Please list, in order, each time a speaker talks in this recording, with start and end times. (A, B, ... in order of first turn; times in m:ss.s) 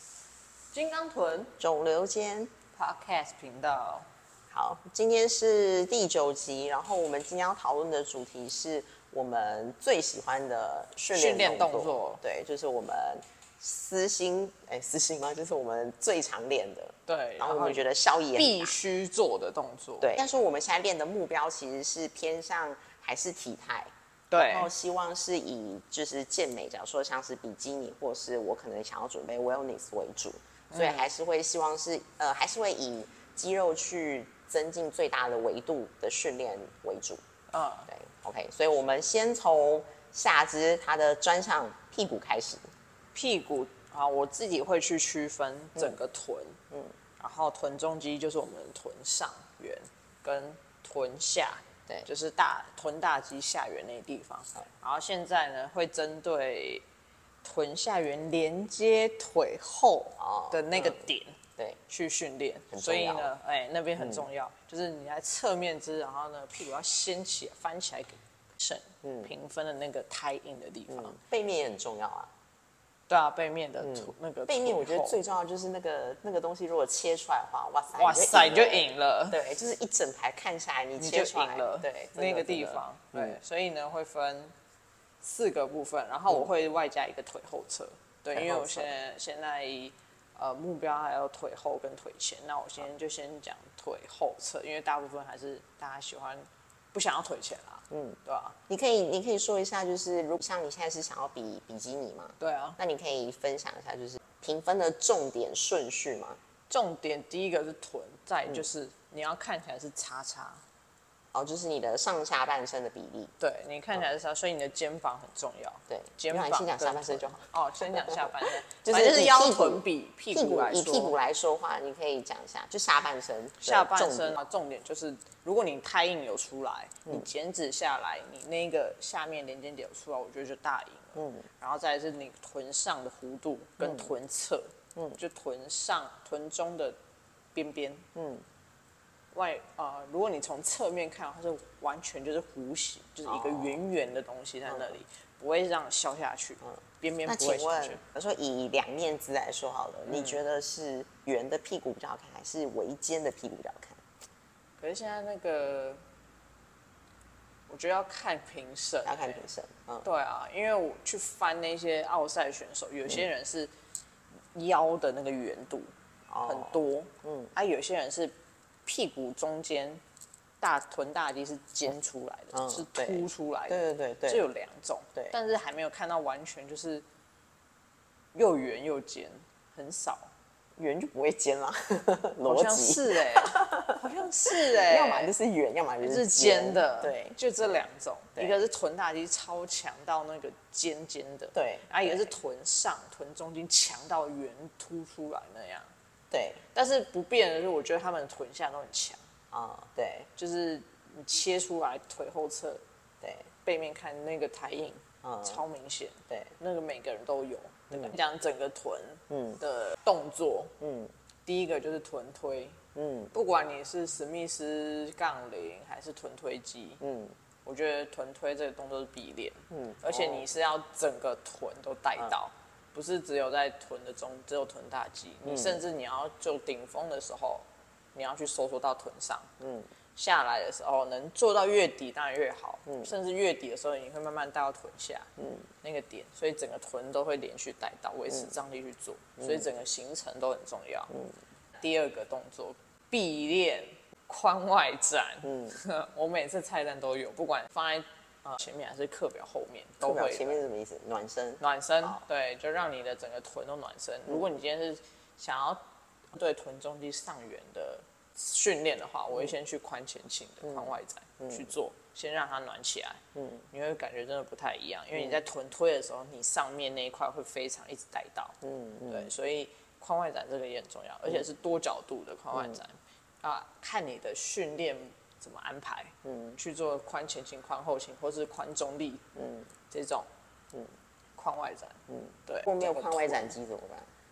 0:00.7-0:01.5 A
0:01.6-0:02.5 B
0:02.8-0:04.1 A
0:04.5-0:18.8 B
0:11.1-0:12.2 A
0:17.1-0:20.2 A
0:20.0-0:37.2 B
0:24.3-0:24.7 A
0:30.7-0:31.1 A
0:37.5-0:37.9 A
0:37.9-0:42.7 B
0:43.1-0:46.6 A
0:47.2-0:56.8 A
0:57.4-1:11.2 A
1:00.2-1:01.8 B
1:02.7-1:03.3 B
1:04.0-1:04.2 B
1:09.0-1:09.3 B
1:10.9-1:12.3 B
1:13.1-1:15.2 A
1:13.8-1:23.4 B
1:17.9-1:19.4 A
1:21.0-1:24.5 A
1:25.2-1:38.6 A
1:28.3-1:28.9 B
1:37.9-1:46.4 B
1:42.4-1:42.8 A
1:46.7-1:50.6 A
1:51.3-1:53.3 B
1:53.4-2:01.1 A
1:55.9-2:04.4 B
2:03.6-2:17.0 A
2:11.2-2:11.5 B
2:13.8-2:14.1 B
2:17.5-2:18.1 A
2:18.1-2:18.4 B
2:19.3-2:28.0 A
2:23.2-2:23.8 B
2:24.7-2:25.0 B
2:26.6-2:34.0 B
2:30.0-2:30.4 A
2:34.8-2:36.0 A
2:37.7-2:39.4 A
2:39.0-2:40.0 B
2:40.0-2:43.7 A
2:44.5-2:45.9 A
2:46.3-2:47.5 B
2:46.4-2:50.0 A
2:50.6-2:57.0 A
2:52.5-2:54.4 B
2:58.3-3:00.3 A
3:00.8-3:07.4 B
3:02.4-3:05.3 A
3:06.0-3:15.9 A
3:08.3-3:08.6 B
3:11.5-3:12.3 B
3:16.3-3:16.6 B
3:16.7-3:19.2 A
3:19.5-3:20.3 B
3:20.4-3:22.8 A
3:23.2-3:23.5 B
3:23.6-3:30.7 A
3:25.2-3:25.6 B
3:26.3-3:26.5 B
3:27.9-3:28.2 B
3:29.3-3:29.6 B
3:30.8-3:31.1 B
3:31.4-3:32.8 A
3:32.9-3:33.3 B
3:33.3-3:37.0 A
3:37.0-3:37.3 B
3:37.6-3:49.5 A
3:39.7-3:40.5 B
3:45.4-3:45.8 B
3:49.6-3:49.9 B
3:50.1-3:55.3 A
3:52.8-3:53.1 B
3:55.4-3:55.7 B
3:55.8-4:01.1 A
3:59.4-3:59.6 B
4:01.8-4:10.6 A
4:05.4-4:05.8 B
4:10.0-4:12.2 B
4:11.6-4:15.8 A
4:16.3-4:39.2 A
4:20.6-4:21.7 B
4:23.3-4:23.6 B
4:28.6-4:29.3 B
4:36.2-4:36.6 B
4:39.4-4:39.7 B
4:39.9-4:40.3 A
4:41.3-4:43.5 A
4:42.1-4:44.1 B